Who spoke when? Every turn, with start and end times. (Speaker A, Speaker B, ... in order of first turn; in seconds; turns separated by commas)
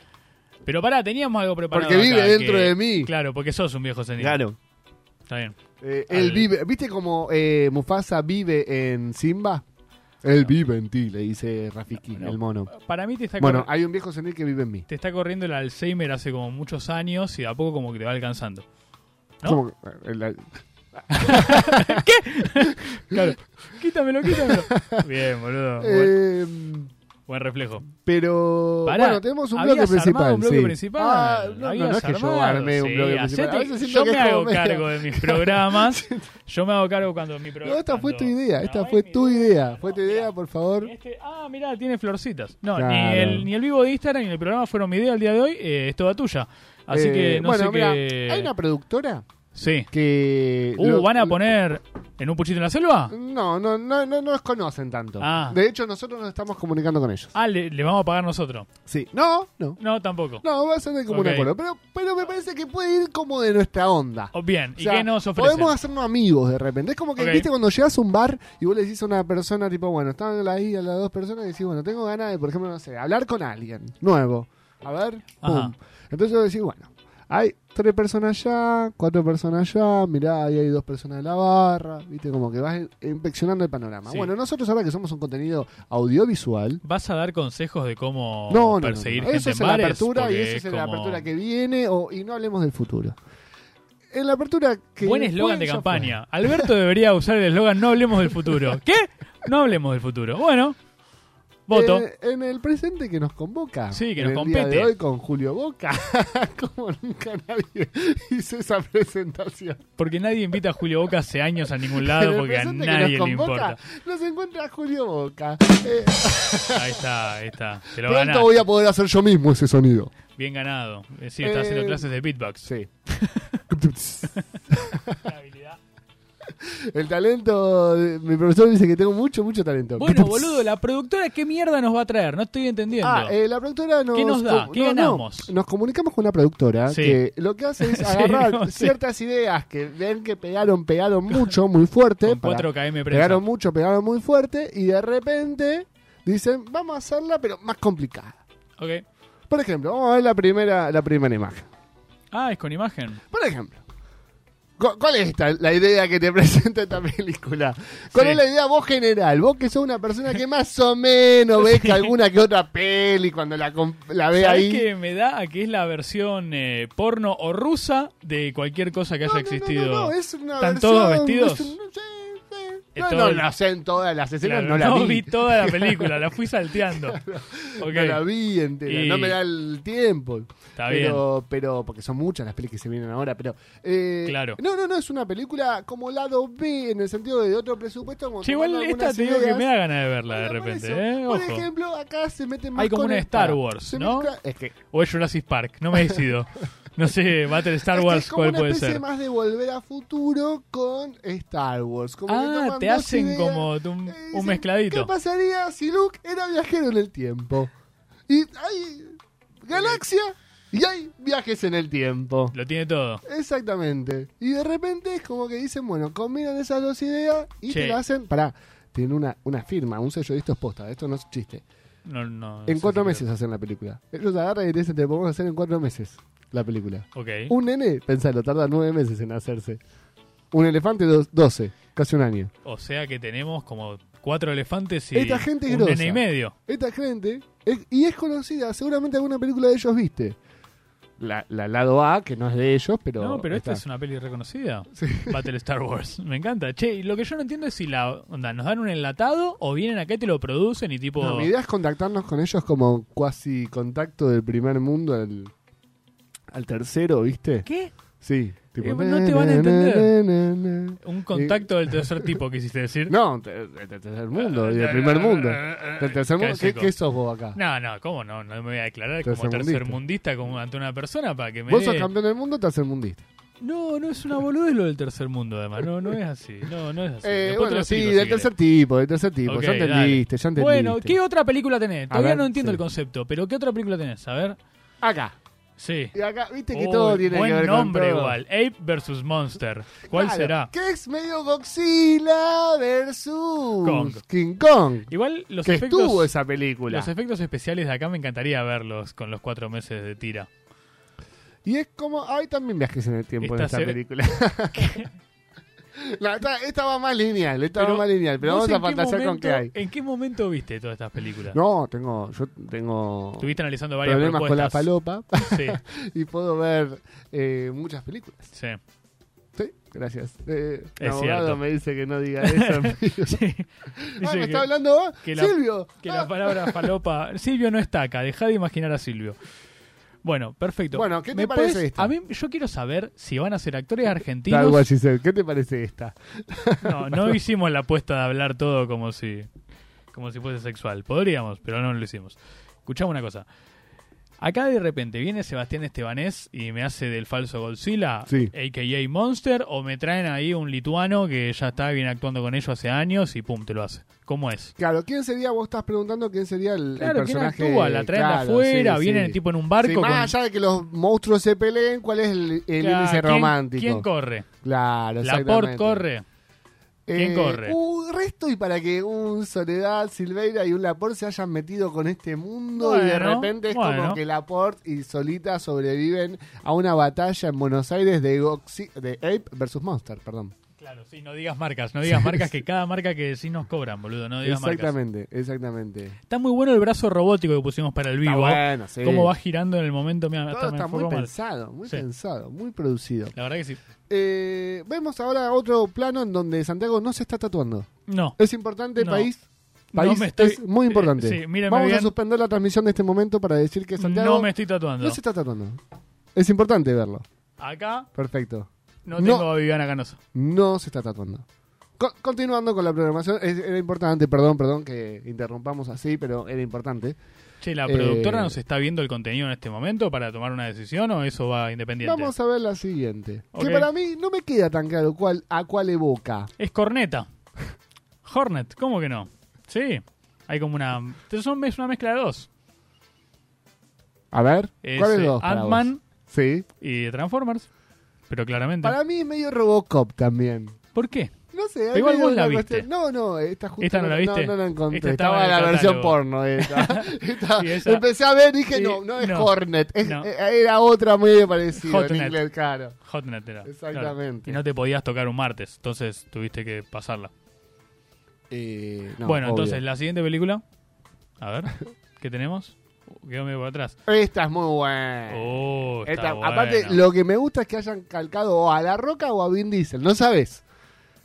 Speaker A: 0.7-4.4, Speaker B: 1.7-3.1, Speaker B: 4.2-4.6, Speaker A: 5.3-5.6, Speaker B: 5.8-9.7, Speaker A: 6.1-6.5, Speaker B: 10.2-12.7, Speaker A: 12.1-13.7, Speaker B: 13.4-14.9, Speaker A: 14.9-18.6, Speaker B: 19.4-22.0, Speaker A: 21.1-26.1, Speaker B: 22.6-23.3, Speaker B: 24.3-25.0, Speaker B: 25.8-26.9, Speaker A: 27.3-27.9, Speaker B: 28.0-36.3, Speaker A: 28.9-48.5, Speaker B: 37.6-40.9, Speaker B: 42.8-43.5, Speaker B: 46.9-49.3, Speaker A: 49.5-49.9, Speaker B: 49.9-51.4, Speaker A: 50.8-53.1, Speaker B: 53.1-57.3, Speaker A: 55.2-55.6, Speaker A: 57.4-58.7, Speaker B: 58.9-59.8, Speaker A: 59.8-60.4, Speaker B: 60.4-86.8, Speaker A: 61.1-61.5, Speaker A: 64.3-65.8, Speaker A: 67.2-67.5, Speaker A: 75.4-75.7, Speaker A: 86.8-91.2, Speaker B: 88.5-93.2, Speaker B: 94.1-96.7, Speaker A: 95.0-100.8, Speaker A: 101.7-102.0, Speaker B: 101.7-109.8, Speaker A: 103.9-104.9, Speaker A: 110.0-113.8, Speaker B: 112.0-117.0, Speaker A: 116.7-118.6, Speaker B: 118.0-120.1, Speaker A: 120.3-123.6, Speaker B: 121.4-122.1, Speaker B: 122.6-122.9, Speaker B: 123.7-125.2, Speaker A: 125.2-125.8, Speaker B: 126.5-130.6, Speaker A: 130.0-133.3, Speaker B: 133.0-148.4, Speaker A: 134.1-135.5, Speaker A: 136.9-137.2, Speaker A: 137.8-139.0, Speaker A: 142.2-143.4, Speaker A: 148.8-149.0, Speaker B: 149.5-151.7, Speaker A: 152.3-153.2, Speaker B: 153.3-153.8, Speaker B: 154.8-164.9, Speaker A: 158.1-158.4, Speaker A: 161.6-162.1, Speaker A: 164.3-171.8, Speaker B: 169.2-189.7, Speaker A: 173.0-173.5, Speaker A: 174.4-177.2, Speaker A: 177.8-178.2, Speaker A: 178.9-179.4, Speaker A: 180.8-181.2, Speaker A: 184.3-184.6, Speaker A: 188.4-191.7, Speaker B: 190.3-194.8, Speaker A: 192.8-194.3, Speaker A: 194.9-199.0, Speaker B: 197.9-207.7, Speaker A: 202.3-205.1, Speaker B: 208.3-212.6, Speaker A: 212.5-213.2, Speaker B: 213.2-221.6, Speaker A: 217.7-218.0, Speaker A: 222.1-223.2, Speaker B: 222.7-229.8, Speaker A: 227.2-227.5, Speaker B: 230.5-232.5, Speaker A: 232.7-236.5, Speaker B: 235.1-240.4, Speaker B: 241.2-243.8, Speaker A: 243.2-251.5, Speaker B: 245.0-245.4, Speaker B: 251.2-255.5, Speaker B: 256.5-257.7, Speaker A: 257.7-257.9, Speaker B: 258.2-262.3, Speaker A: 258.8-260.1, Speaker A: 261.0-263.1, Speaker B: 263.1-267.6, Speaker A: 264.4-266.9, Speaker A: 267.6-272.1, Speaker B: 269.2-270.0, Speaker B: 271.7-273.3, Speaker A: 273.6-278.5, Speaker B: 277.2-281.1, Speaker A: 279.5-284.6, Speaker B: 282.1-282.8, Speaker B: 285.0-285.4, Speaker A: 285.8-286.1, Speaker B: 286.1-288.4, Speaker A: 286.7-290.7, Speaker B: 290.1-295.1, Speaker A: 293.8-294.2, Speaker A: 295.1-296.3, Speaker B: 295.6-297.1, Speaker A: 296.9-300.5, Speaker B: 301.6-305.0, Speaker A: 303.4-304.0, Speaker A: 304.8-305.1, Speaker B: 305.9-309.7, Speaker A: 307.8-311.6, Speaker B: 311.5-313.5, Speaker A: 313.4-314.9, Speaker B: 314.0-318.5, Speaker A: 315.4-315.8, Speaker B: 319.6-323.4, Speaker A: 321.0-321.6, Speaker A: 322.4-323.7, Speaker B: 323.9-326.9, Speaker A: 324.2-324.7, Speaker A: 325.2-329.4, Speaker A: 330.2-334.9, Speaker B: 330.9-332.1, Speaker B: 334.5-337.4, Speaker A: 336.8-339.5, Speaker A: 340.1-343.5, Speaker A: 344.4-354.7, Speaker B: 354.8-364.1, Speaker A: 357.0-360.3, Speaker A: 362.8-364.5, Speaker B: 364.6-366.0, Speaker A: 365.2-366.2, Speaker B: 367.1-380.5, Speaker A: 367.1-367.8, Speaker A: 372.8-374.2, Speaker A: 380.8-384.9, Speaker B: 382.1-382.5, Speaker B: 384.4-386.2, Speaker A: 386.3-391.3, Speaker B: 388.2-389.3, Speaker B: 390.5-393.3, Speaker A: 393.4-393.8, Speaker B: 394.1-399.4, Speaker A: 398.1-398.4, Speaker A: 399.0-399.3, Speaker A: 399.9-402.1, Speaker B: 399.9-405.8, Speaker A: 404.0-405.2, Speaker B: 406.4-407.2, Speaker A: 407.6-408.1, Speaker B: 408.2-409.5, Speaker A: 409.1-410.2, Speaker B: 410.4-411.4, Speaker B: 412.0-417.2, Speaker A: 417.6-422.3, Speaker B: 417.9-418.6, Speaker B: 422.0-426.5, Speaker A: 423.6-423.9, Speaker A: 426.6-427.3, Speaker A: 428.2-432.5, Speaker B: 434.3-436.7, Speaker A: 434.8-436.0, Speaker A: 436.8-437.7, Speaker A: 438.3-439.0, Speaker B: 438.8-440.8, Speaker A: 440.9-441.3, Speaker B: 441.5-453.0, Speaker A: 441.9-442.9, Speaker A: 443.8-448.1, Speaker A: 448.7-450.3, Speaker A: 451.8-452.4, Speaker A: 453.1-457.3, Speaker B: 453.6-454.6, Speaker B: 458.5-459.8, Speaker A: 459.2-460.6, Speaker A: 461.4-464.0, Speaker B: 464.1-470.6, Speaker A: 465.3-467.0